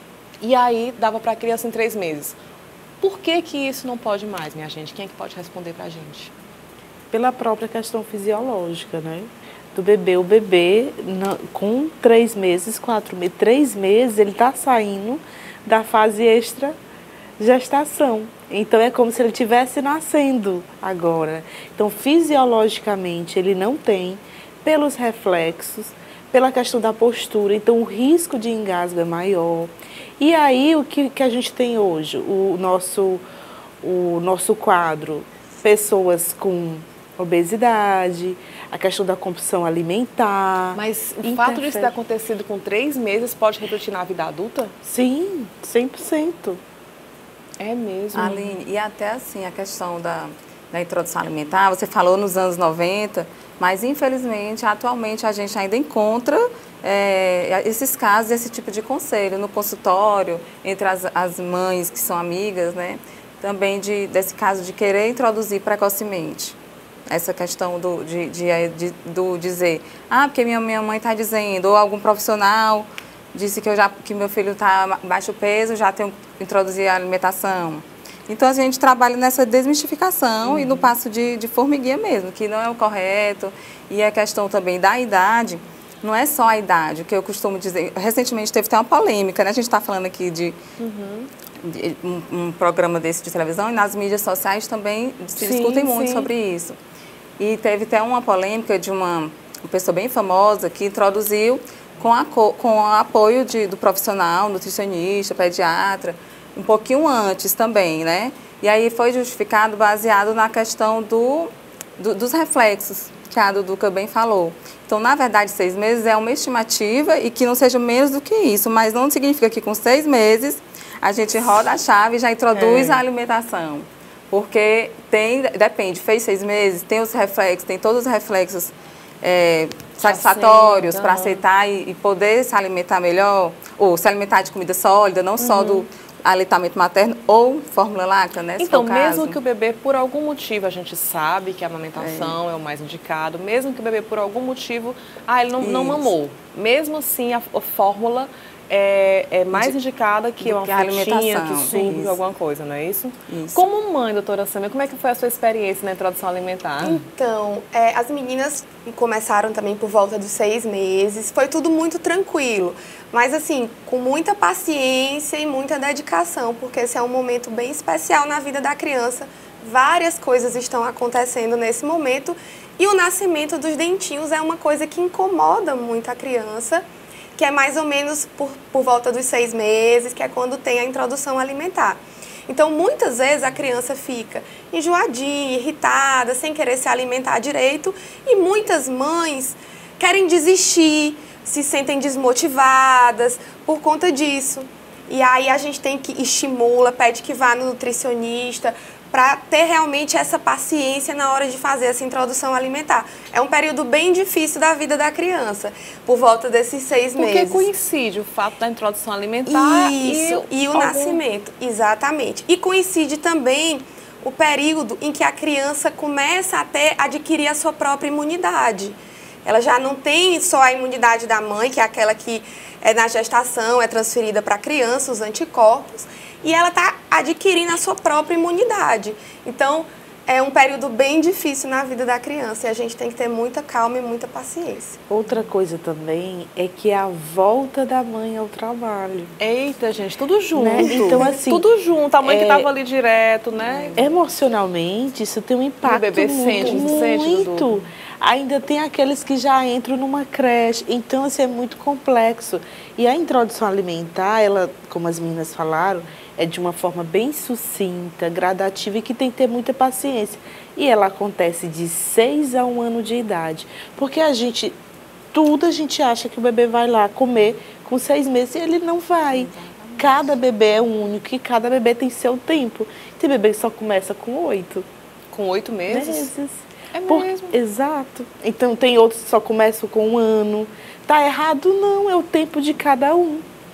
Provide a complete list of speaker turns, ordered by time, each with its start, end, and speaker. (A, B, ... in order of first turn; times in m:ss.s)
0:00.4-0:02.4 A
0:03.0-0:06.3 A
0:07.1-0:16.8 B
0:17.4-0:33.2 B
0:33.8-0:41.9 B
0:40.7-0:44.7 A
0:44.8-0:46.6 B
0:47.6-0:48.4 A
0:48.1-1:06.6 C
1:07.1-1:30.6 C
1:20.4-1:20.9 A
1:30.8-1:31.3 A
1:31.6-1:36.8 C
1:35.4-1:36.3 A
1:37.4-2:19.4 C
2:02.5-2:03.0 A
2:10.0-2:11.4 A
2:15.4-2:15.9 A
2:18.6-2:37.0 A
2:22.0-2:22.4 C
2:25.6-2:26.1 C
2:30.4-2:32.2 C
2:33.3-2:33.6 C
2:36.8-2:56.8 D
2:57.4-3:27.7 D
3:27.2-3:31.2 A
3:29.5-3:55.0 D
3:55.1-3:59.3 B
3:59.4-4:04.1 A
4:00.5-4:01.6 B
4:02.2-4:02.7 B
4:03.6-4:04.1 C
4:04.0-4:24.8 B
4:05.8-4:07.9 A
4:25.3-4:34.9 B
4:29.3-4:30.4 C
4:35.3-4:36.3 A
4:35.9-4:43.4 B
4:36.9-4:37.6 A